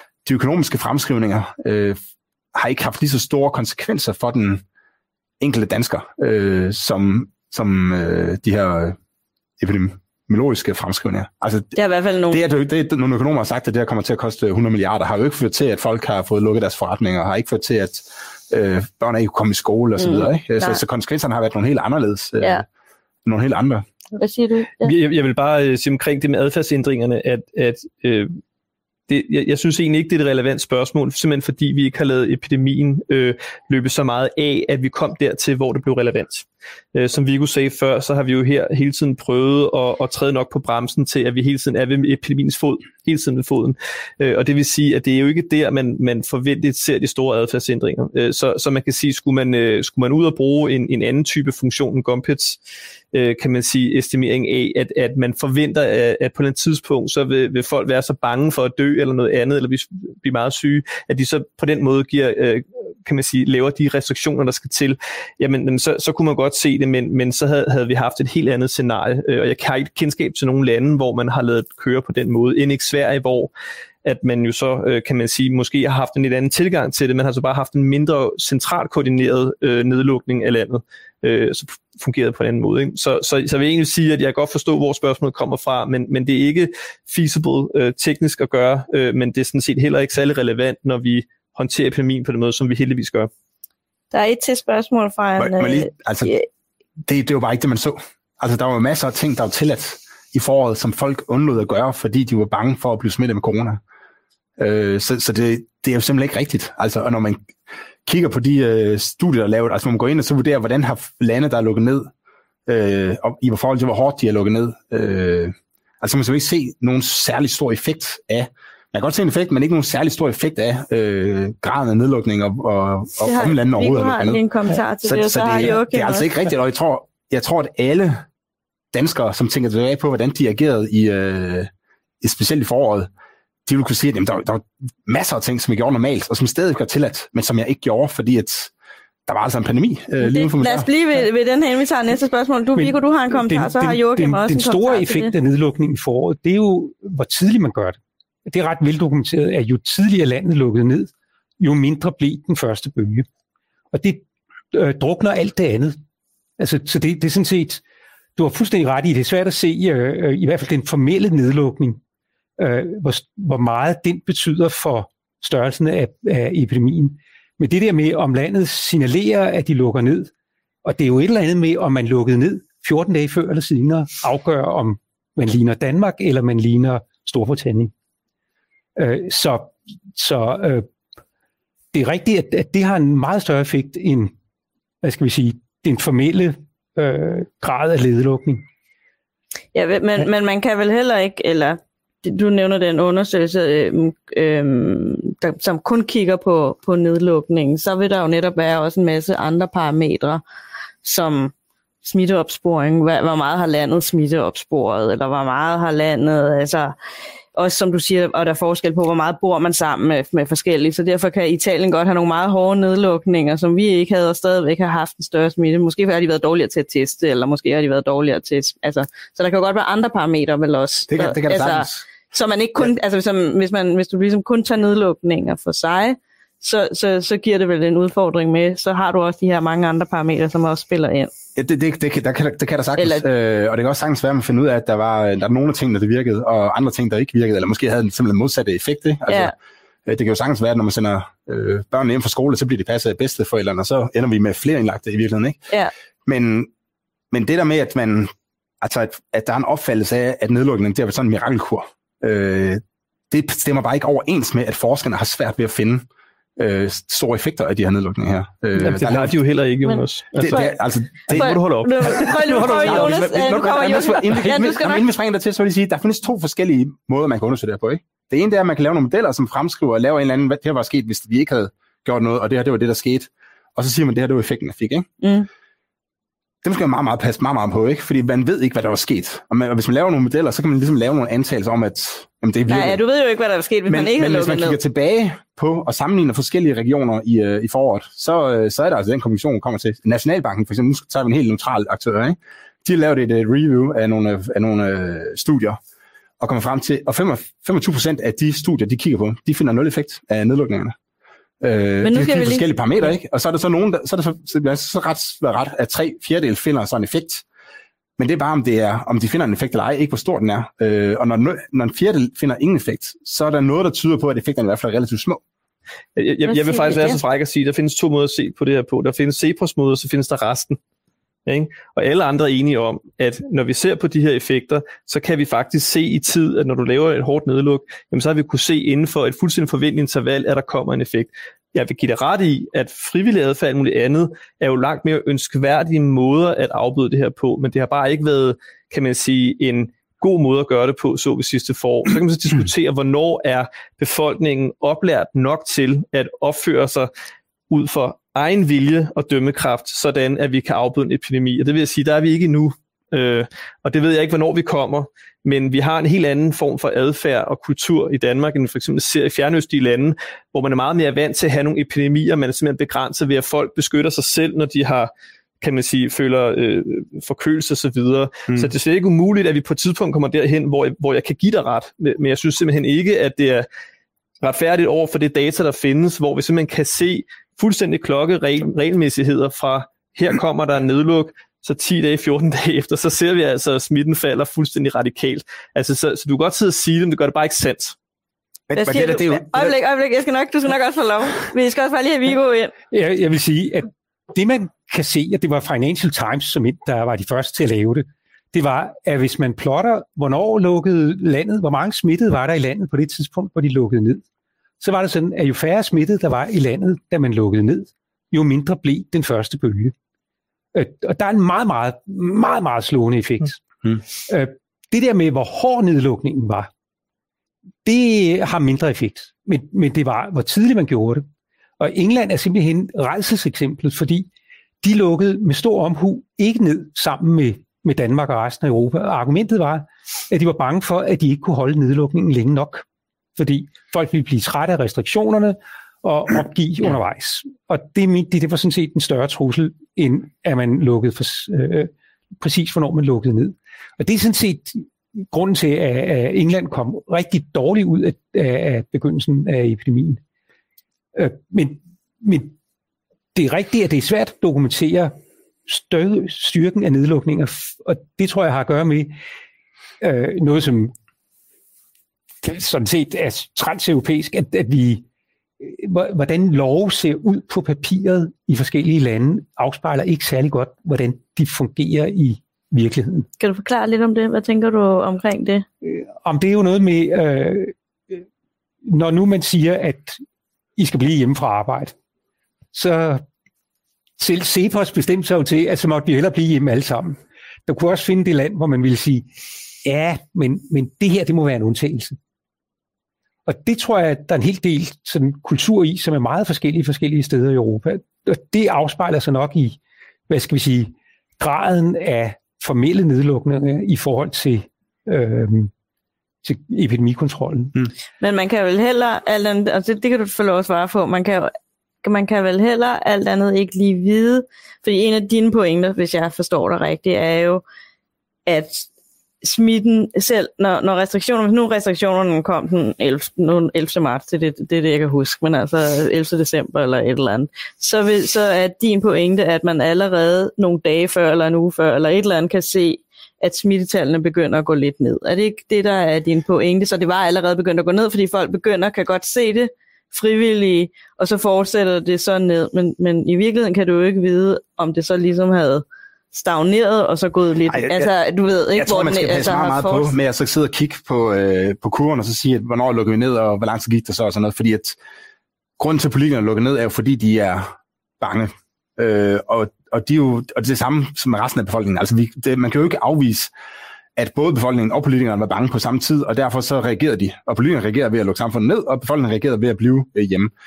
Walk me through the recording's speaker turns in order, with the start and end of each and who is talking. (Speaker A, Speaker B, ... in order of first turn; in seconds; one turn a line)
Speaker A: 0.2-2.0
Speaker A: 2.5-4.6
Speaker A: 5.4-9.0
Speaker A: 9.6-11.7
Speaker B: 11.8-12.4
Speaker A: 12.3-22.7
Speaker B: 20.0-20.8
Speaker A: 23.2-23.9
Speaker B: 24.1-24.9
Speaker C: 24.8-28.4
Speaker C: 29.1-52.6
Speaker C: 53.1-73.5
Speaker C: 74.0-93.3
Speaker B: 94.1-96.5
Speaker A: 95.4-96.3
Speaker A: 97.0-103.8
Speaker A: 104.6-107.5
Speaker A: 108.0-112.1
Speaker A: 112.7-124.4
Speaker B: 123.2-126.3
Speaker A: 125.0-128.2
Speaker A: 128.9-131.7
Speaker A: 132.2-133.1
Speaker A: 133.7-138.7
Speaker A: 139.3-140.9
Speaker B: 140.2-145.3
Speaker D: 142.8-153.3
Speaker D: 153.9-156.0
Speaker D: 156.6-157.8
Speaker D: 158.4-162.0
Speaker D: 162.6-170.3
Speaker D: 170.8-177.9
Speaker D: 179.0-180.9
Speaker D: 181.9-184.3
Speaker D: 185.0-188.7
Speaker B: 189.7-200.4
Speaker B: 201.0-207.0
Speaker B: 207.6-231.3
Speaker A: 221.1-222.0
Speaker A: 231.6-239.5
Speaker B: 233.0-233.2
Speaker A: 240.1-245.6
Speaker A: 246.3-246.7
Speaker A: 247.3-256.1
Speaker A: 256.6-259.4
Speaker C: 258.8-260.6
Speaker B: 259.9-260.8
Speaker A: 260.4-275.1
Speaker C: 261.3-263.1
Speaker B: 261.3-265.1
Speaker B: 275.2-275.5
Speaker A: 276.6-283.0
Speaker B: 282.7-284.8
Speaker A: 283.9-295.8
Speaker A: 296.4-301.0
Speaker A: 301.6-307.4
Speaker B: 302.0-303.1
Speaker A: 308.2-315.4
Speaker C: 316.2-320.8
Speaker B: 316.5-317.2
Speaker C: 321.5-347.1
Speaker C: 347.7-365.1
Speaker C: 365.6-373.7
Speaker C: 374.4-388.0
Speaker A: 388.7-389.8
Speaker B: 388.8-392.7
Speaker D: 392.9-404.2
Speaker D: 404.8-409.9
Speaker D: 410.7-413.6
Speaker D: 414.2-416.7
Speaker D: 417.9-421.3
Speaker D: 421.8-424.3
Speaker D: 424.8-432.9
Speaker D: 433.4-450.2
Speaker D: 451.1-452.6
Speaker D: 453.3-455.1
Speaker D: 455.7-459.2
Speaker D: 460.0-460.9
Speaker D: 462.4-465.0
Speaker D: 465.6-473.3
Speaker B: 473.4-475.6
Speaker D: 475.8-478.2
Speaker D: 478.9-480.2
Speaker D: 480.8-481.9
Speaker D: 482.7-483.2
Speaker D: 484.2-489.3
Speaker D: 489.8-492.2
Speaker D: 493.5-505.7
Speaker D: 506.4-507.8
Speaker B: 508.2-517.6
Speaker B: 518.5-518.9
Speaker B: 519.4-550.1
Speaker A: 547.7-548.1
Speaker A: 548.7-555.0
Speaker A: 555.8-563.5
Speaker A: 564.2-570.5